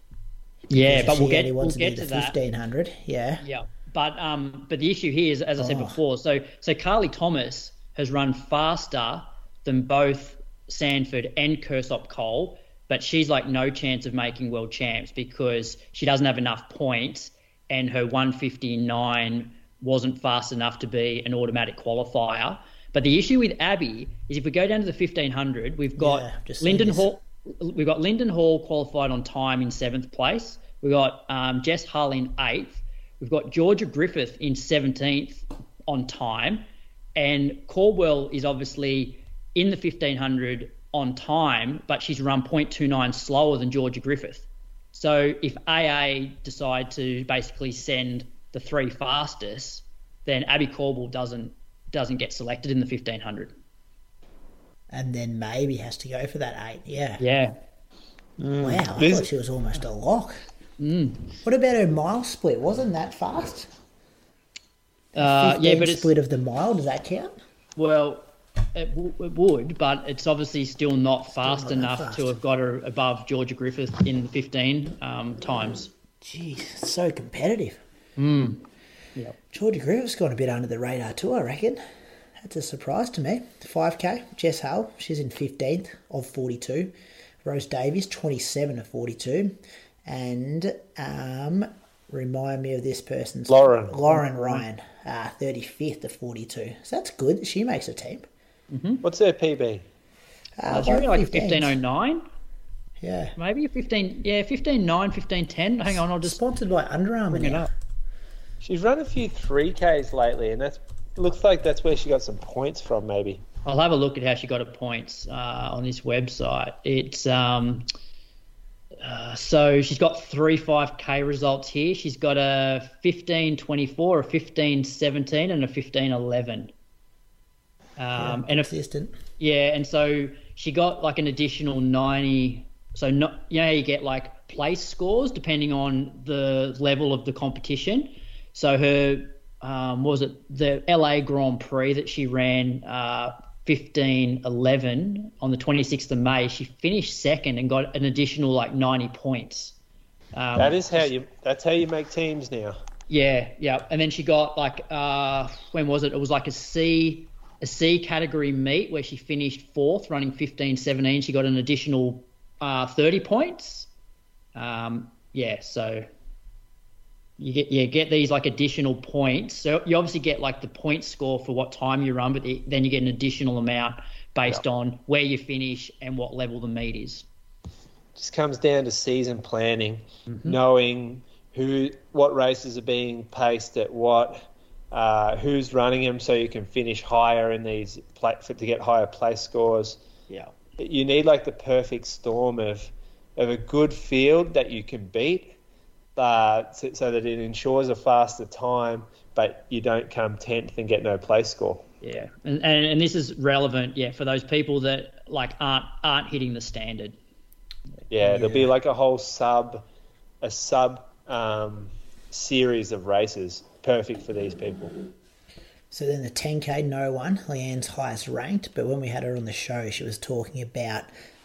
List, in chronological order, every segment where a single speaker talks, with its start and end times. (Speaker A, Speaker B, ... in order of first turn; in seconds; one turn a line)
Speaker A: 0.7-2.4
Speaker B: 0.7-3.4
Speaker A: 3.4-36.6
Speaker B: 5.6-6.0
Speaker B: 26.0-27.1
Speaker A: 37.1-53.5
Speaker B: 54.9-57.2
Speaker A: 57.2-57.5
Speaker C: 58.4-59.3
Speaker B: 58.6-60.4
Speaker A: 60.8-61.4
Speaker B: 61.4-63.7
Speaker B: 65.1-67.3
Speaker A: 65.2-66.1
Speaker A: 67.8-75.9
Speaker B: 71.3-72.3
Speaker B: 76.2-77.8
Speaker A: 78.2-78.6
Speaker B: 79.5-81.8
Speaker B: 82.4-86.9
Speaker B: 87.4-98.3
Speaker C: 93.5-94.0
Speaker A: 94.1-94.6
Speaker A: 98.7-99.0
Speaker C: 99.0-99.9
Speaker B: 100.6-101.8
Speaker A: 100.7-102.2
Speaker B: 103.0-103.3
Speaker A: 103.4-106.4
Speaker B: 105.9-107.7
Speaker A: 107.3-107.7
Speaker C: 108.6-113.4
Speaker A: 113.6-117.9
Speaker A: 119.0-126.7
Speaker A: 128.0-128.7
Speaker B: 128.2-129.1
Speaker A: 129.4-149.8
Speaker A: 150.3-151.1
Speaker C: 150.6-152.8
Speaker A: 153.1-163.9
Speaker A: 164.6-166.1
Speaker A: 167.4-177.2
Speaker C: 178.2-190.0
Speaker A: 180.3-180.6
Speaker C: 190.8-195.6
Speaker C: 196.2-201.9
Speaker A: 202.0-207.2
Speaker C: 208.1-209.8
Speaker B: 208.2-208.7
Speaker C: 210.4-214.9
Speaker B: 215.9-221.1